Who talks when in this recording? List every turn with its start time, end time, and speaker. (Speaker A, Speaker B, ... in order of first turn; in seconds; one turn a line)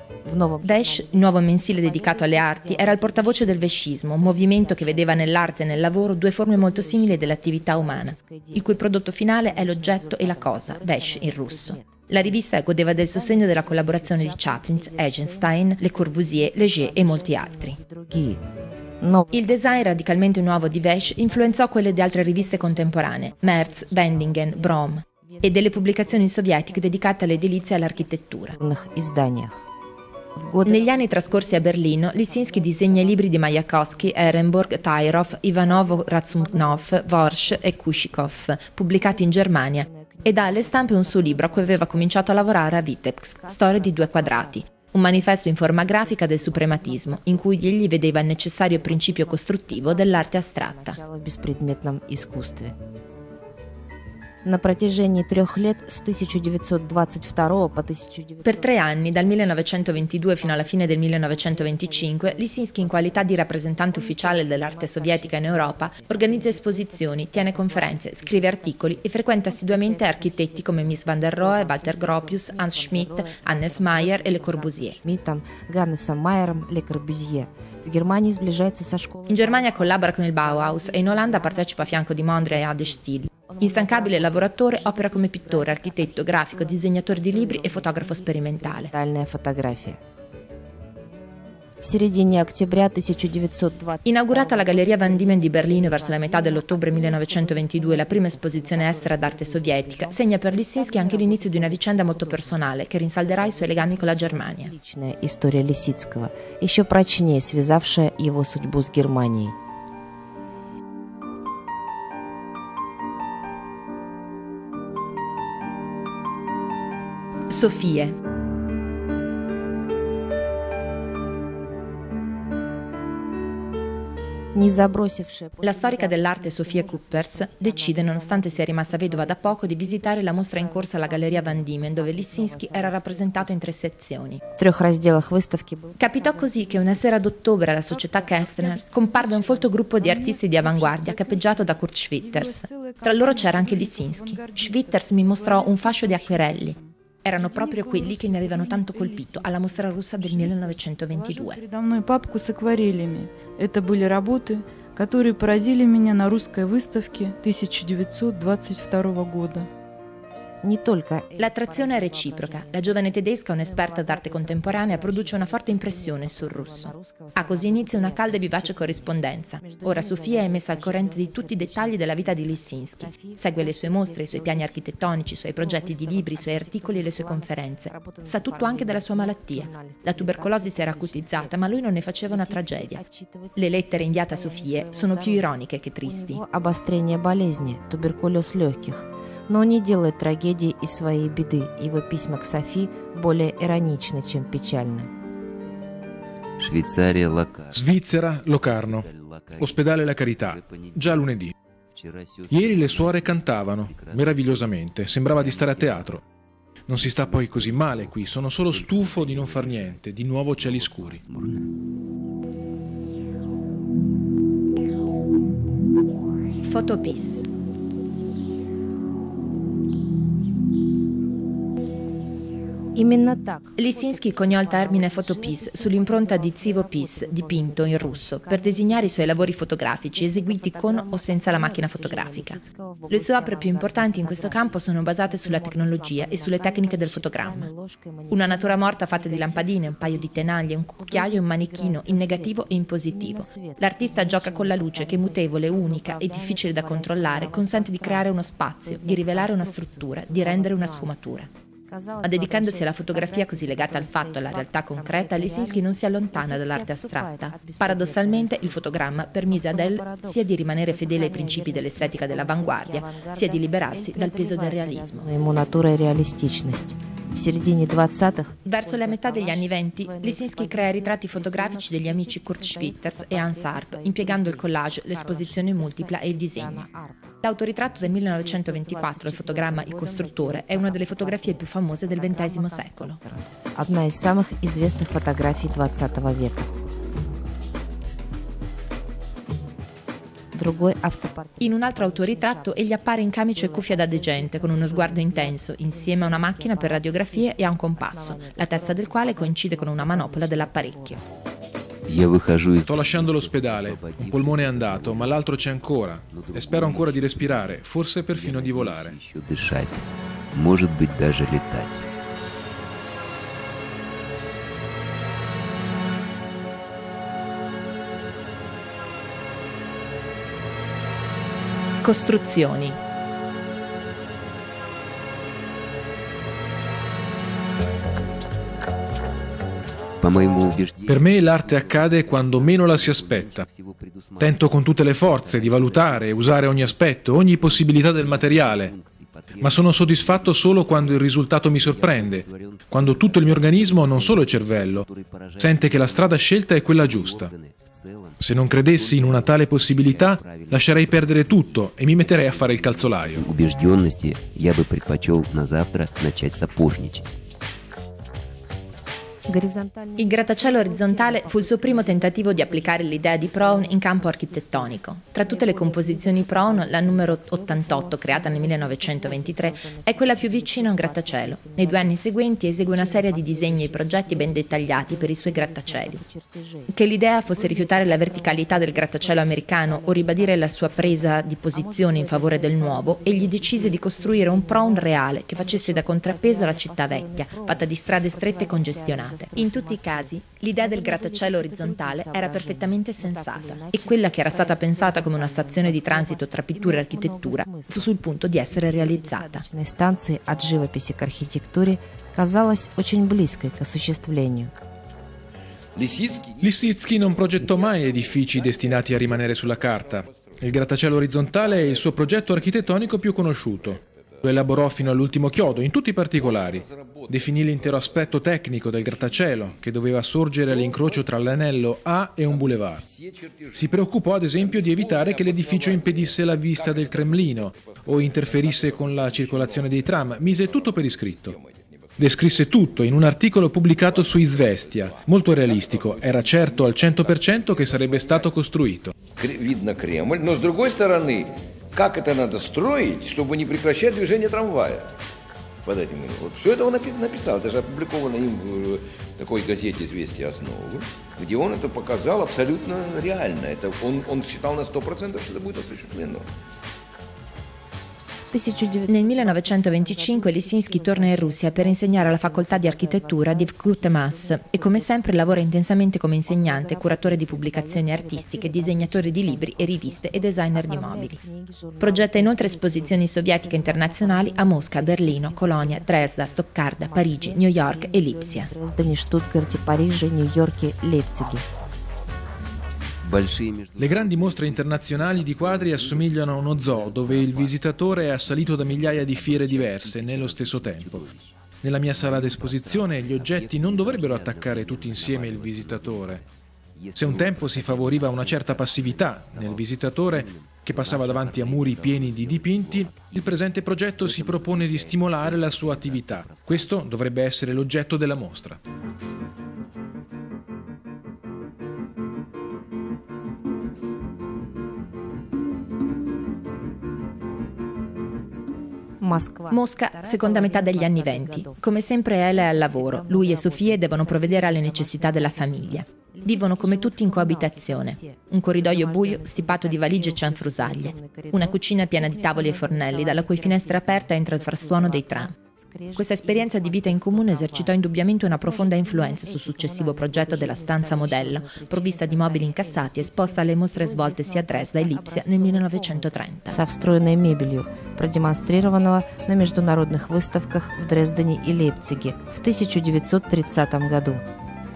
Speaker A: 0.2-18.4
Speaker B: 0.6-17.8
Speaker A: 19.0-29.6
Speaker B: 19.3-28.6
Speaker A: 30.3-52.8
Speaker B: 30.6-51.0
Speaker A: 54.4-90.0
Speaker B: 58.4-75.0
Speaker B: 79.3-88.9
Speaker A: 91.8-109.5
Speaker B: 94.0-104.7
Speaker B: 117.5-118.2
Speaker A: 124.5-133.6
Speaker B: 125.6-134.4
Speaker A: 134.5-137.1
Speaker B: 136.0-151.6
Speaker C: 137.9-159.7
Speaker A: 160.6-195.1
Speaker B: 161.4-183.0
Speaker B: 183.6-186.4
Speaker D: 196.6-201.3
Speaker E: 197.7-199.1
Speaker E: 199.6-201.5
Speaker D: 201.9-206.2
Speaker E: 202.5-206.2
Speaker E: 206.9-211.2
Speaker D: 206.9-211.8
Speaker B: 216.6-217.4
Speaker A: 222.9-286.7
Speaker B: 223.8-237.7
Speaker B: 238.3-251.5
Speaker B: 252.2-265.3
Speaker B: 268.6-276.9
Speaker B: 277.4-283.2
Speaker A: 290.5-301.2
Speaker B: 291.6-301.2
Speaker D: 302.1-305.6
Speaker E: 302.9-309.1
Speaker D: 306.3-312.1
Speaker B: 322.0-323.0
Speaker D: 330.2-357.2
Speaker E: 331.1-333.6
Speaker E: 334.4-338.9
Speaker E: 339.6-345.1
Speaker E: 345.6-347.5
Speaker E: 348.4-353.5
Speaker A: 359.4-372.2
Speaker B: 360.2-376.2
Speaker A: 372.9-404.7
Speaker B: 376.9-399.6
Speaker F: 405.9-415.8
Speaker E: 406.6-423.0
Speaker F: 416.3-419.8
Speaker F: 420.6-421.7
Speaker F: 422.4-433.2
Speaker E: 423.7-431.6
Speaker E: 432.2-439.1
Speaker F: 433.9-438.6
Speaker F: 439.3-445.1
Speaker F: 445.8-456.5
Speaker A: 458.4-465.8
Speaker B: 459.1-471.4
Speaker A: 466.4-481.6
Speaker B: 472.0-478.7
Speaker D: 483.2-507.1
Speaker E: 484.0-491.2
Speaker E: 491.8-496.4
Speaker E: 497.1-508.8
Speaker A: 519.2-521.8
Speaker B: 519.7-535.5
Speaker A: 522.5-538.0
Speaker B: 536.1-546.8
Speaker A: 538.6-554.4